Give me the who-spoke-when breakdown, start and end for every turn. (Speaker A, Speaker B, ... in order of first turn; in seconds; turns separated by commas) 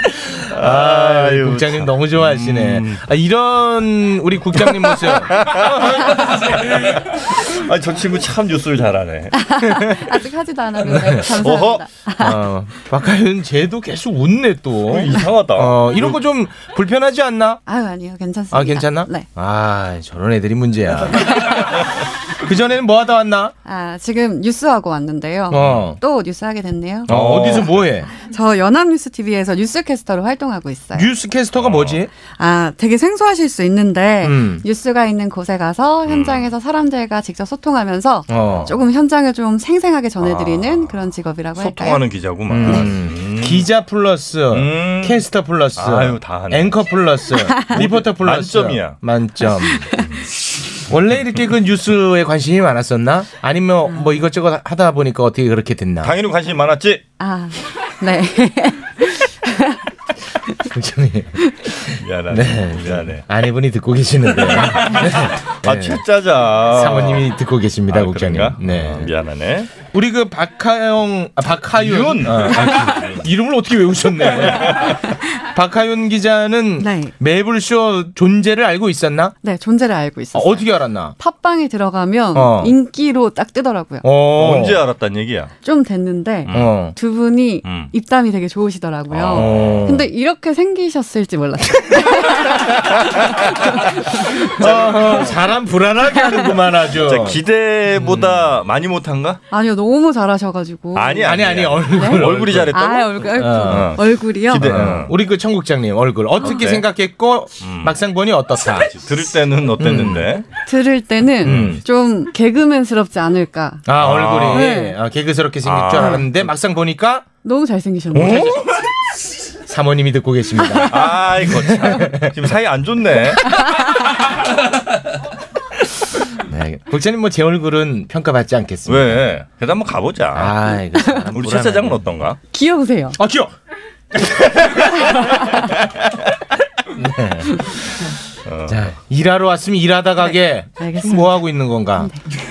Speaker A: 0.3-6.4, Speaker B: 0.4-3.0, Speaker B: 4.7-10.1, Speaker C: 9.3-12.4, Speaker A: 10.8-11.2, Speaker B: 10.9-11.8, Speaker A: 12.2-17.6, Speaker B: 14.9-16.1, Speaker C: 17.7-19.3, Speaker A: 18.5-23.5, Speaker C: 23.6-27.1, Speaker A: 25.5-26.0, Speaker A: 27.1-28.1, Speaker B: 27.1-27.8, Speaker C: 28.1-31.1, Speaker A: 30.9-32.1, Speaker B: 31.6-32.0, Speaker C: 32.4-42.0, Speaker A: 34.2-34.6, Speaker B: 36.0-36.5, Speaker A: 38.3-38.7, Speaker B: 38.5-38.7, Speaker B: 40.2-40.9, Speaker B: 41.6-43.7, Speaker A: 42.5-50.0, Speaker B: 44.5-45.2, Speaker B: 45.8-46.8, Speaker B: 47.7-49.0, Speaker A: 50.9-56.1, Speaker C: 53.9-54.1, Speaker B: 56.0-57.0, Speaker C: 57.2-59.8, Speaker A: 60.6-66.0, Speaker B: 62.0-63.2, Speaker B: 64.7-67.3, Speaker A: 66.7-69.1, Speaker B: 67.9-69.7, Speaker A: 69.9-79.3, Speaker B: 71.7-73.2, Speaker B: 74.5-75.0, Speaker C: 76.8-77.1, Speaker C: 79.4-84.0, Speaker A: 80.3-81.1, Speaker A: 82.3-82.7, Speaker A: 84.0-84.8, Speaker B: 84.4-85.5, Speaker C: 85.6-92.8, Speaker B: 86.5-86.7, Speaker A: 86.5-86.9, Speaker B: 87.6-87.9, Speaker B: 89.1-89.8, Speaker A: 89.3-90.1, Speaker B: 93.0-93.3, Speaker C: 93.4-94.4, Speaker A: 94.6-97.4, Speaker B: 94.6-95.4, Speaker B: 96.9-99.4, Speaker C: 99.5-101.4, Speaker B: 100.9-105.1, Speaker A: 101.2-102.8, Speaker C: 101.9-104.7, Speaker A: 103.3-104.0, Speaker A: 104.5-108.9, Speaker B: 106.4-106.8, Speaker B: 107.6-108.0, Speaker B: 108.8-110.5, Speaker A: 109.8-110.3, Speaker C: 110.6-113.8, Speaker A: 111.4-111.8, Speaker B: 111.4-111.8, Speaker A: 113.8-117.2, Speaker B: 114.0-114.7, Speaker C: 114.5-115.0, Speaker B: 115.6-116.3, Speaker C: 116.0-116.2, Speaker C: 117.4-118.7, Speaker A: 118.1-118.7, Speaker A: 119.7-122.3, Speaker C: 120.7-120.9, Speaker B: 120.9-123.5, Speaker C: 123.6-123.9, Speaker A: 126.4-129.2, Speaker B: 128.9-130.6, Speaker A: 130.3-132.0, Speaker B: 131.3-132.4, Speaker C: 132.5-133.2, Speaker A: 133.2-133.5, Speaker C: 135.1-135.7, Speaker A: 136.9-137.7, Speaker B: 138.4-138.9, Speaker A: 138.7-142.1, Speaker C: 140.8-141.4